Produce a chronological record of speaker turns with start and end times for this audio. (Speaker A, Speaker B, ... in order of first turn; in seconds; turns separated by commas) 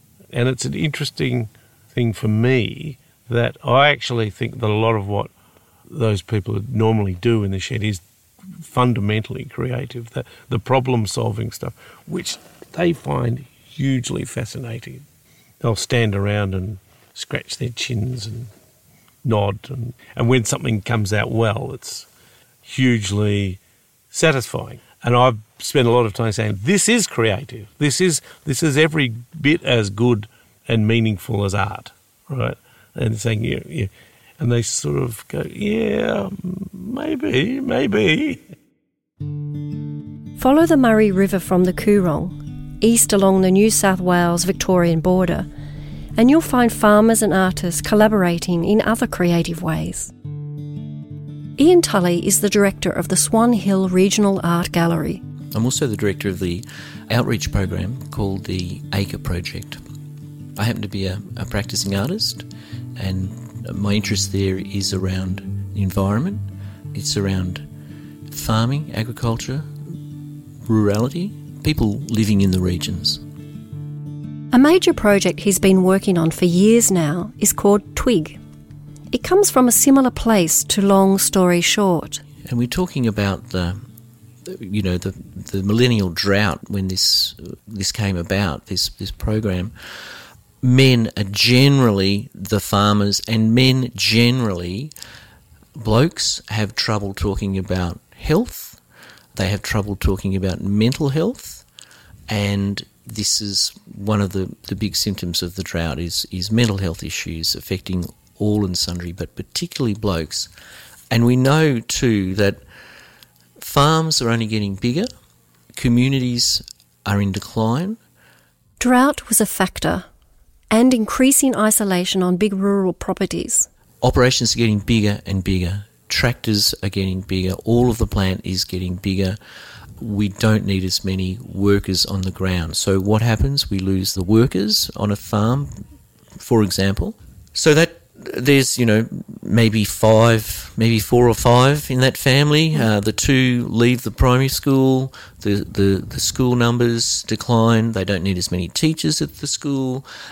Speaker A: 0.3-5.3, Speaker A: 5.9-8.0, Speaker A: 8.6-15.0, Speaker A: 15.6-18.5, Speaker A: 19.2-22.1, Speaker A: 22.6-23.6, Speaker A: 24.1-38.4, Speaker B: 40.4-45.5, Speaker B: 46.2-50.1, Speaker B: 51.6-55.2, Speaker C: 55.5-59.8, Speaker C: 60.5-62.5, Speaker C: 63.0-67.6, Speaker C: 68.3-69.7, Speaker C: 70.6-73.2, Speaker B: 74.5-78.4, Speaker B: 79.1-82.2, Speaker C: 82.4-83.8, Speaker C: 84.4-89.7, Speaker C: 90.6-94.9, Speaker C: 95.8-98.8, Speaker C: 99.3-101.6, Speaker C: 102.3-110.5, Speaker C: 111.1-112.6, Speaker C: 113.6-115.1, Speaker C: 115.7-118.0, Speaker B: 118.8-120.0, Speaker B: 120.7-123.7, Speaker C: 124.0-129.4, Speaker C: 130.0-135.8, Speaker C: 136.3-150.0